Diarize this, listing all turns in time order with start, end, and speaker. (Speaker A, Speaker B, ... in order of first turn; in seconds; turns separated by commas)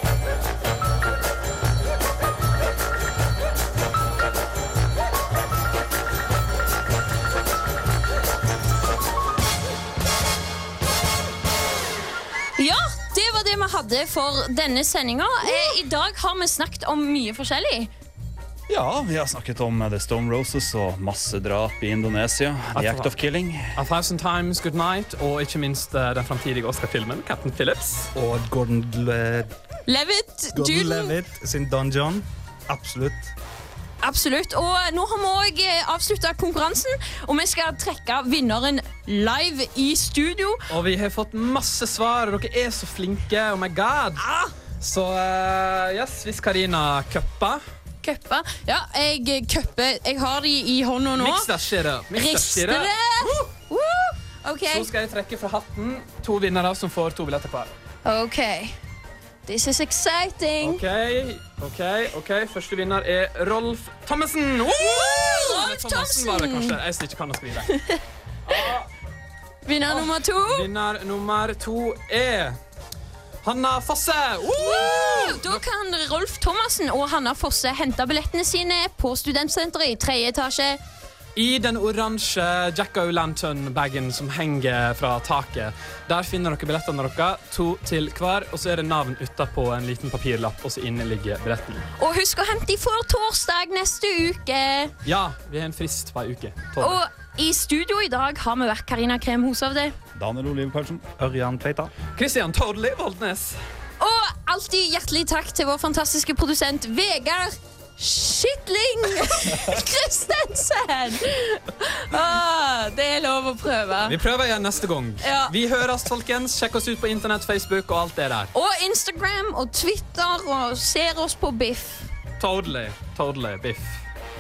Speaker A: 12.6-17.9, Speaker B: 18.7-23.8, Speaker C: 22.8-23.1, Speaker C: 23.8-28.1, Speaker D: 28.1-29.5, Speaker A: 29.9-31.1, Speaker D: 30.5-33.3, Speaker A: 34.0-40.6, Speaker C: 40.7-44.2, Speaker A: 44.2-44.5, Speaker C: 44.8-47.6, Speaker A: 48.0-51.5, Speaker C: 51.2-53.3, Speaker A: 52.1-54.9, Speaker C: 54.7-57.7, Speaker A: 58.0-58.8, Speaker A: 59.5-60.8, Speaker C: 60.6-67.8, Speaker A: 64.8-66.8, Speaker A: 67.7-68.0, Speaker C: 68.5-68.9, Speaker A: 69.7-70.7, Speaker C: 69.9-72.6, Speaker C: 73.4-75.6, Speaker A: 74.5-80.8, Speaker C: 81.4-91.9, Speaker A: 92.0-94.9, Speaker C: 95.0-97.0, Speaker A: 96.8-100.0, Speaker B: 100.2-101.1, Speaker D: 101.2-101.9, Speaker C: 102.2-103.6, Speaker A: 104.0-114.2, Speaker C: 114.1-118.5, Speaker A: 115.2-115.5, Speaker A: 118.5-122.1, Speaker C: 122.4-124.0